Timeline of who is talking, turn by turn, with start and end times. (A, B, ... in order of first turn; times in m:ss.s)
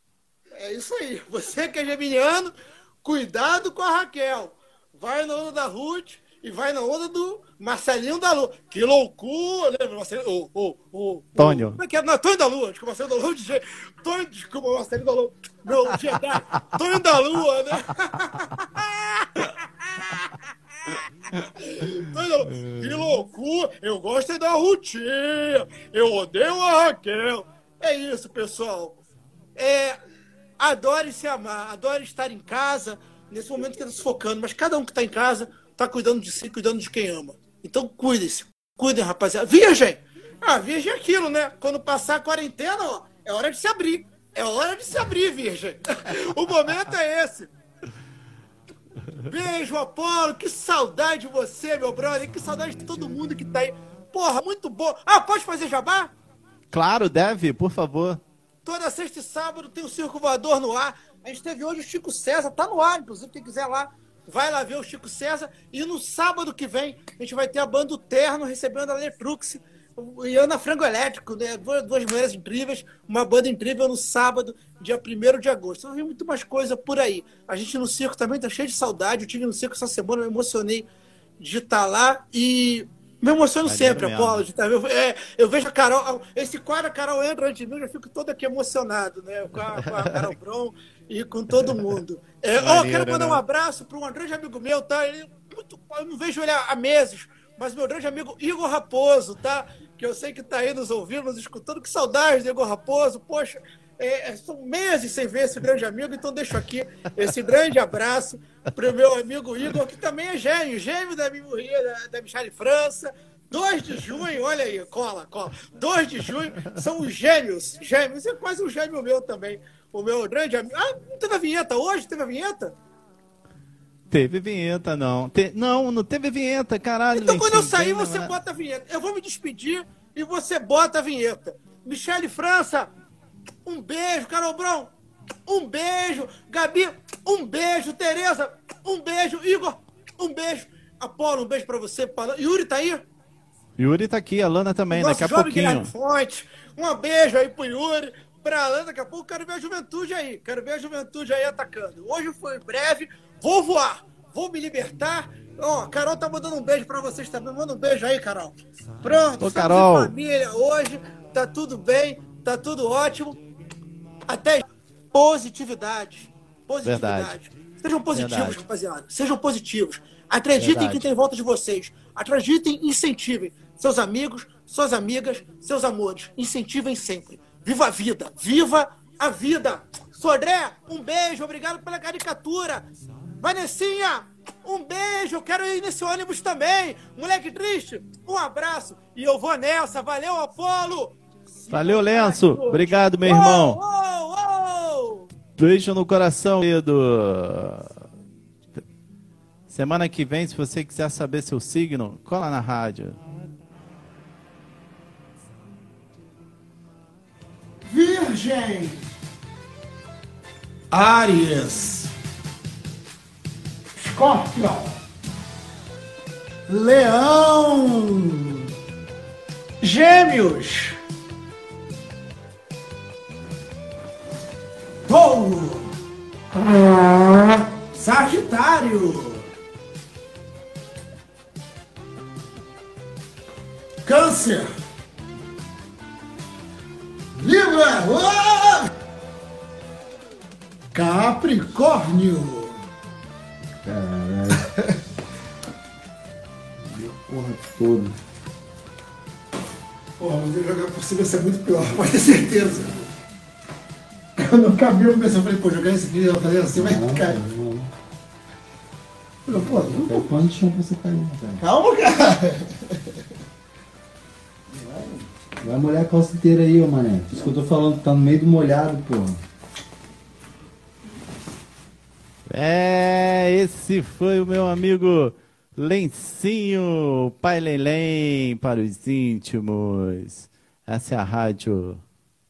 0:00.5-0:19.5 A
0:11.4-0:11.8 B
0:21.8-0:29.0 A
0:29.6-0:30.0 A
0:30.6-0:47.5 A
0:49.3-0:56.1 A
0:56.7-0:58.2 B
0:58.6-1:20.9 A
1:21.4-2:02.7 A
1:23.6-1:24.4 B
1:29.8-1:30.3 B
1:31.5-1:32.0 B
1:32.6-1:33.4 B
2:04.1-2:08.3 B
2:07.1-2:12.9 A
2:13.7-2:14.9 A
2:15.5-2:23.0 A
2:23.8-2:25.9 B
2:24.9-2:43.4 A
2:39.4-2:40.1 B
2:44.3-3:02.9 A
2:46.8-2:47.4 B
2:48.1-2:48.6 B
2:50.6-2:51.1 B
3:03.4-3:15.3 A
3:11.7-3:13.8 B
3:15.6-3:18.0 B
3:19.7-3:23.2 B
3:27.9-3:29.0 A
3:30.9-3:32.1 A
3:34.0-3:34.8 A
3:36.7-3:38.3 A
3:39.8-3:41.0 A
3:45.1-3:45.9 A
3:48.0-3:49.4 A
3:54.1-3:54.7 A
3:57.4-3:58.9 A
4:00.9-4:02.7 A
4:03.8-4:04.6 C
4:06.9-4:08.2 C
4:10.2-4:13.0 A
4:14.4-4:17.4 A
4:16.7-4:17.9 C
4:19.5-4:21.6 C
4:19.9-4:20.1 A
4:21.6-4:22.4 A
4:24.7-4:29.4 C
4:32.5-4:42.0 B